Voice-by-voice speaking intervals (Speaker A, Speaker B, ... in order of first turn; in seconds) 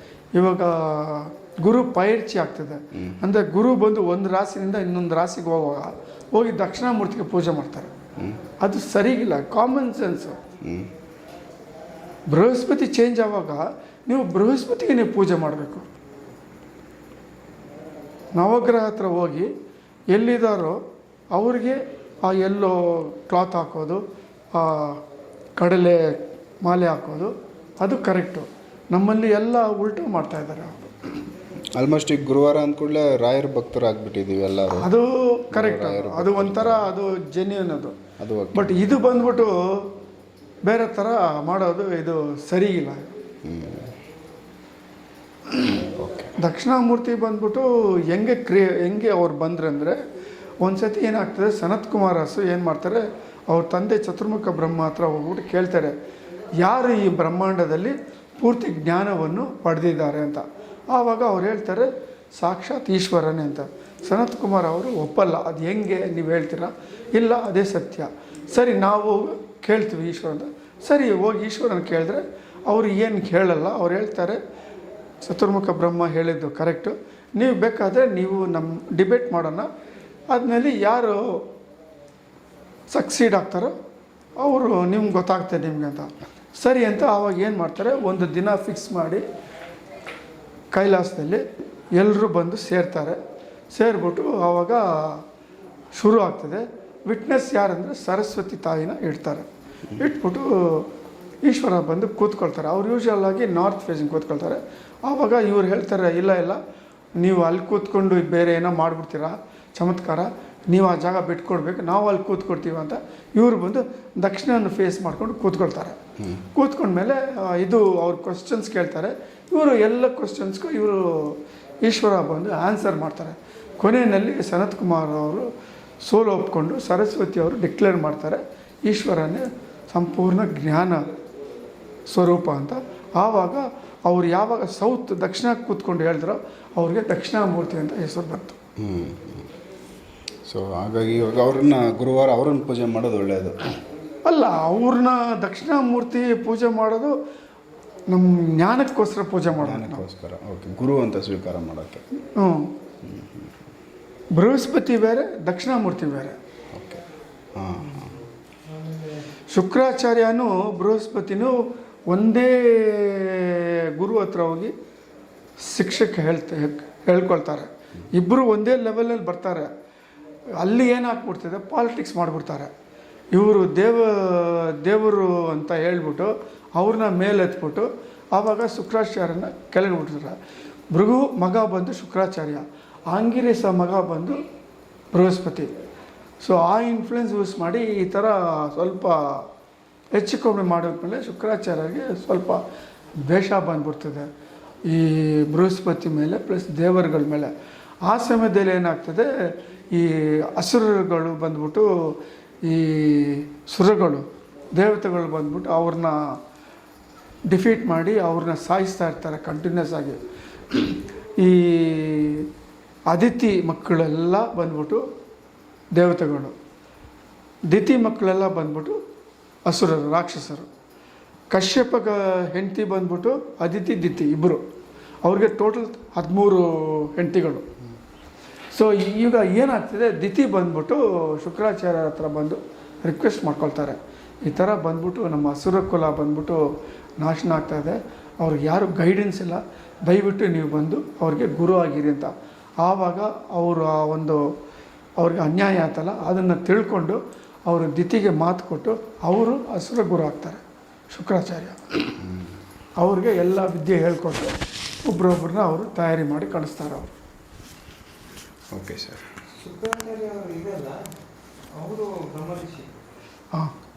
Speaker A: 0.3-7.9, 8.6-10.4, 12.3-15.9, 18.4-19.5, 20.1-20.8, 21.3-24.0, 24.5-25.0, 25.6-31.0, 34.8-38.0, 38.5-39.9, 40.6-43.1, 46.4-50.0, 50.6-55.9, 56.6-74.4, 75.2-79.7, 80.3-81.4, 82.9-83.7, 84.4-89.2, 90.7-91.4, 92.0-93.2, 93.7-95.2, 96.0-100.9, 101.4-106.6, 107.2-116.0, 116.5-125.5, 126.0-131.1, 132.1-138.6, 144.2-147.1, 148.1-150.1, 152.4-152.7, 154.3-156.4, 159.5-164.7, 165.6-169.7, 170.6-172.7, 173.3-180.4, 180.9-184.4, 185.1-185.7, 186.4-189.5, 190.2-192.6, 193.3-194.3, 194.9-197.5, 198.0-204.2, 204.8-206.2, 207.5-210.2, 210.7-212.5, 213.1-215.0, 215.9-216.6, 217.7-219.0, 219.7-220.7, 221.5-224.6, 225.2-227.7, 228.7-236.6, 237.2-244.4, 245.2-251.9, 253.0-257.1
Speaker B: 10.6-10.9, 31.8-34.9, 35.5-36.9, 38.2-39.3, 43.4-43.9, 45.6-46.4, 138.8-139.5, 140.5-143.8, 149.5-152.0, 153.0-153.5, 156.7-157.0, 157.6-158.2, 252.2-252.6, 258.7-259.4
Speaker C: 259.6-261.1, 261.7-262.9